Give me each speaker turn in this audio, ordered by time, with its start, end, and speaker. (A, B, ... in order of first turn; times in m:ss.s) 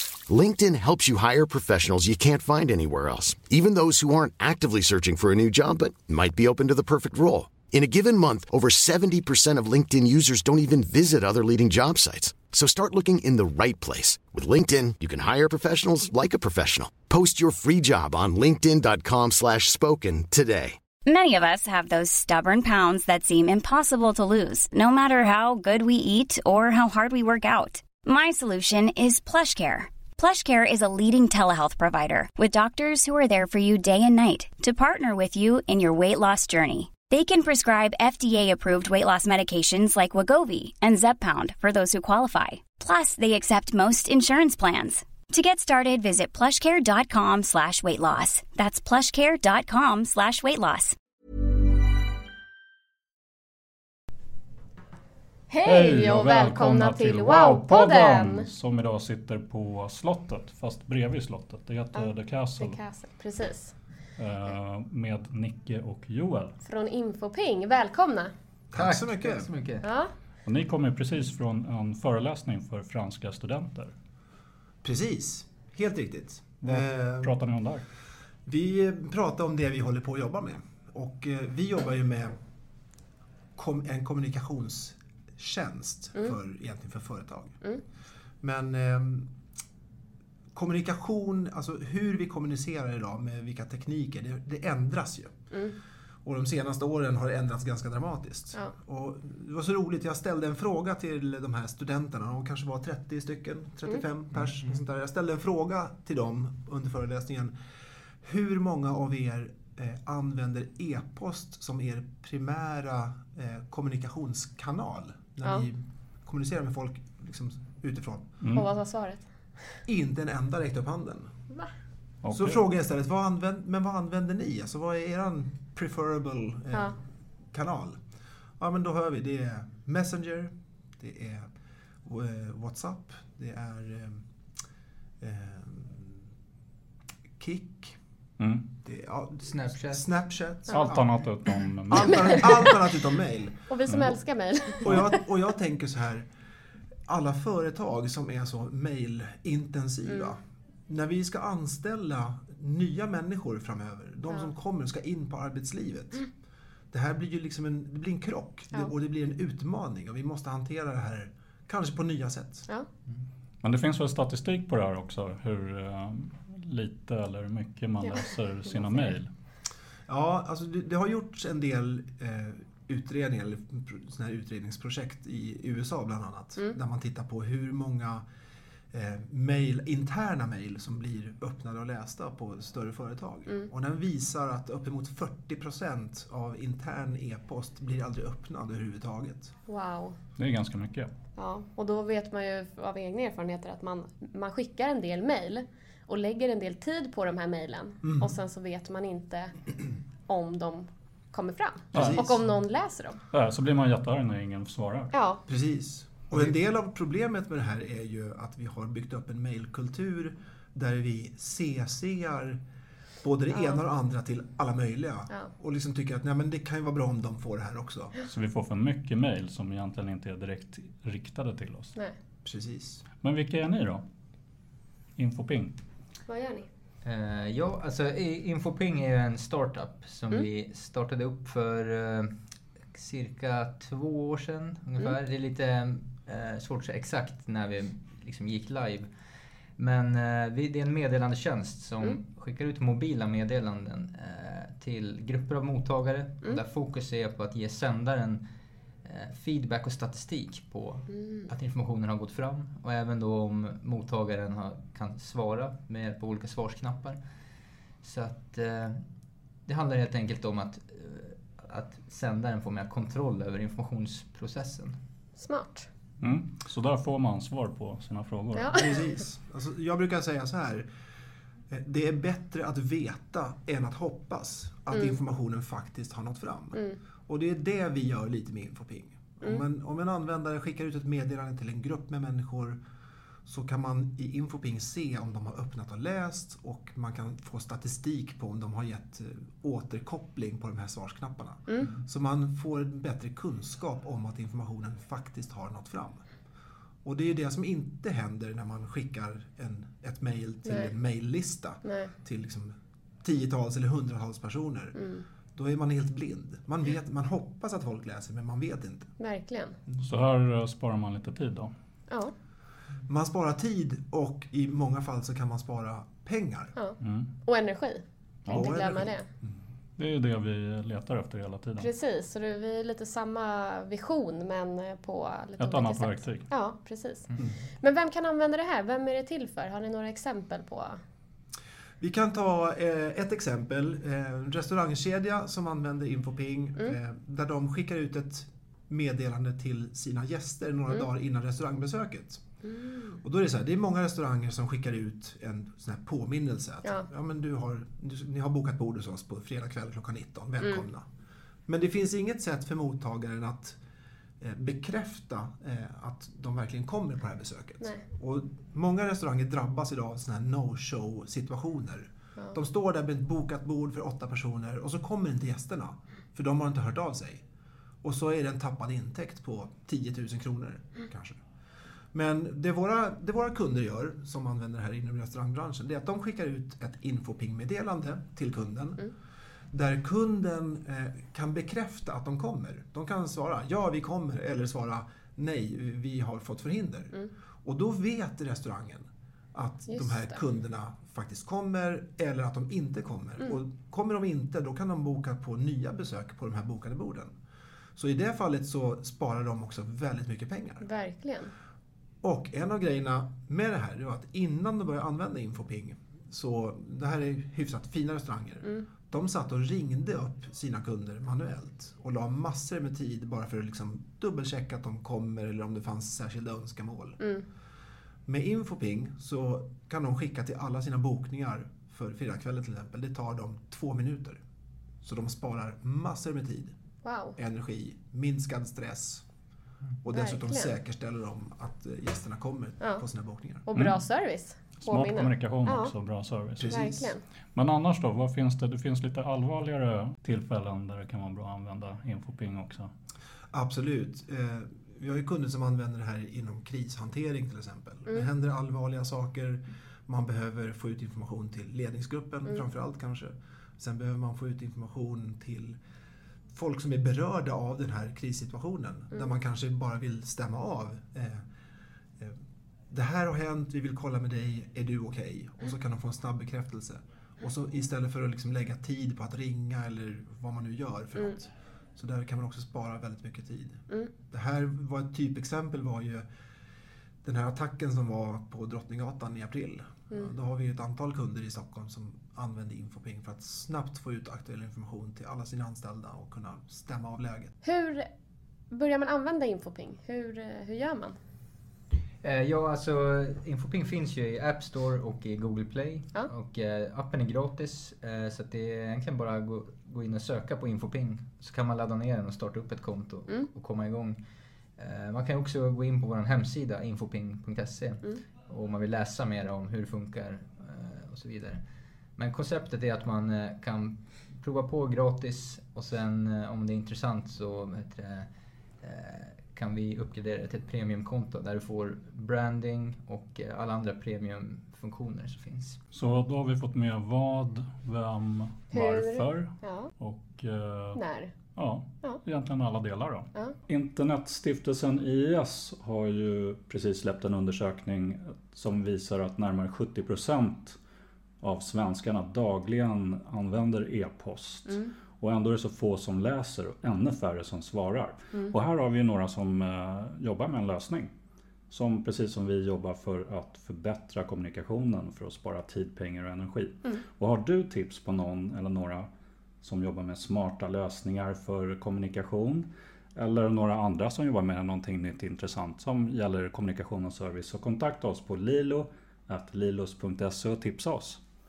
0:00.3-0:20.8 A
0:21.0-0:50.9 B
0:55.5-0:58.5 C
0:55.6-1:02.8 D
1:01.9-1:03.7 C
1:04.2-1:06.6 D
1:06.6-1:08.3 C
1:08.7-1:09.5 E
1:08.7-1:09.9 F
1:09.8-1:10.1 C
1:10.4-1:13.9 D
1:14.8-1:17.4 E
1:16.6-1:17.8 D
1:18.4-1:22.3 E
1:23.6-1:27.6 E
1:28.4-1:29.3 E
1:30.5-1:35.3 E
1:36.2-1:47.5 E
1:48.2-1:58.3 E
1:58.4-1:58.7 D
1:58.5-1:59.8 C
1:59.8-2:01.3 E
2:02.2-2:02.6 D
2:02.3-2:07.0 E
2:07.5-2:08.0 E
2:08.6-2:11.5 E
2:12.0-2:14.2 E
2:15.2-2:16.2 E
2:17.4-2:18.0 E
2:18.4-2:18.7 D
2:18.8-2:21.1 E
2:19.4-2:20.1 F
2:20.7-2:22.7 D
2:21.9-2:23.6 E
2:22.2-2:22.6 C
2:23.7-2:25.2 C
2:23.9-2:24.2 D
2:24.8-2:26.2 E
2:27.1-2:36.3 E
2:30.0-2:30.3 C
2:36.9-2:42.7 E
2:43.6-2:49.3 D
2:48.0-2:49.1 C
2:50.1-2:58.2 E
2:58.9-3:09.5 E
3:09.7-3:10.2 C
3:10.4-3:11.1 D
3:11.4-3:23.2 C
3:18.0-3:18.4 E
3:21.9-3:22.4 D
3:21.9-3:22.4 E
3:23.3-3:25.1 D
3:25.1-3:25.4 C
3:25.5-3:32.6 E
3:33.2-3:38.1 E
3:33.5-3:33.8 C
3:38.2-3:41.9 D
3:42.4-3:43.0 E
3:43.2-3:44.0 D
3:45.2-3:45.8 D
3:46.3-3:46.7 C
3:47.0-3:52.3 F
3:52.9-3:59.1 F
3:59.8-4:08.4 F
4:09.0-4:17.2 F
4:11.1-4:11.5 C
4:18.0-4:19.0 F
4:19.6-4:25.0 F
4:25.4-4:25.9 C
4:26.2-4:28.7 D
4:28.5-4:29.0 C
4:28.7-4:30.8 E
4:31.7-4:42.8 E
4:43.4-4:56.2 E
4:51.7-4:51.9 C
4:57.0-5:05.0 E
5:00.6-5:00.9 C
5:01.8-5:02.1 C
5:05.0-5:05.2 C
5:05.5-5:09.1 E
5:09.2-5:09.8 C
5:10.0-5:11.7 D
5:13.0-5:16.7 E
5:16.8-5:19.3 C
5:17.0-5:17.3 D
5:18.5-5:19.5 E
5:20.0-5:21.9 D
5:21.8-5:31.0 C
5:25.6-5:26.5 D
5:32.0-5:42.4 E
5:42.6-5:43.2 C
5:43.2-5:51.0 E
5:51.7-5:53.8 E
5:54.4-6:07.4 E
6:08.0-6:11.4 E
6:12.1-6:19.1 E
6:19.7-6:37.3 E
6:29.9-6:30.4 C
6:38.0-6:40.8 E
6:40.8-6:41.5 C
6:42.2-6:57.2 E
6:57.2-6:57.4 C
6:58.2-7:04.4 E
7:05.0-7:06.7 E
7:07.0-7:07.4 C
7:07.4-7:09.2 E
7:10.0-7:13.6 E
7:10.1-7:10.7 C
7:13.6-7:15.9 C
7:13.7-7:14.0 D
7:14.8-7:16.9 D
7:16.6-7:17.1 E
7:16.7-7:17.2 C
7:17.5-7:22.9 D
7:23.5-7:35.8 E
7:36.5-7:41.4 E
7:42.9-7:56.2 E
7:57.2-8:07.5 E
8:07.6-8:08.1 C
8:08.7-8:11.2 C
8:12.2-8:24.2 F
8:24.8-8:38.3 F
8:38.8-8:45.8 F
8:45.9-8:51.0 D
8:48.7-8:49.9 C
8:50.9-8:51.3 C
8:51.6-9:00.8 D
9:01.4-9:11.1 D
9:04.6-9:04.9 C
9:11.7-9:19.1 D
9:19.6-9:31.2 D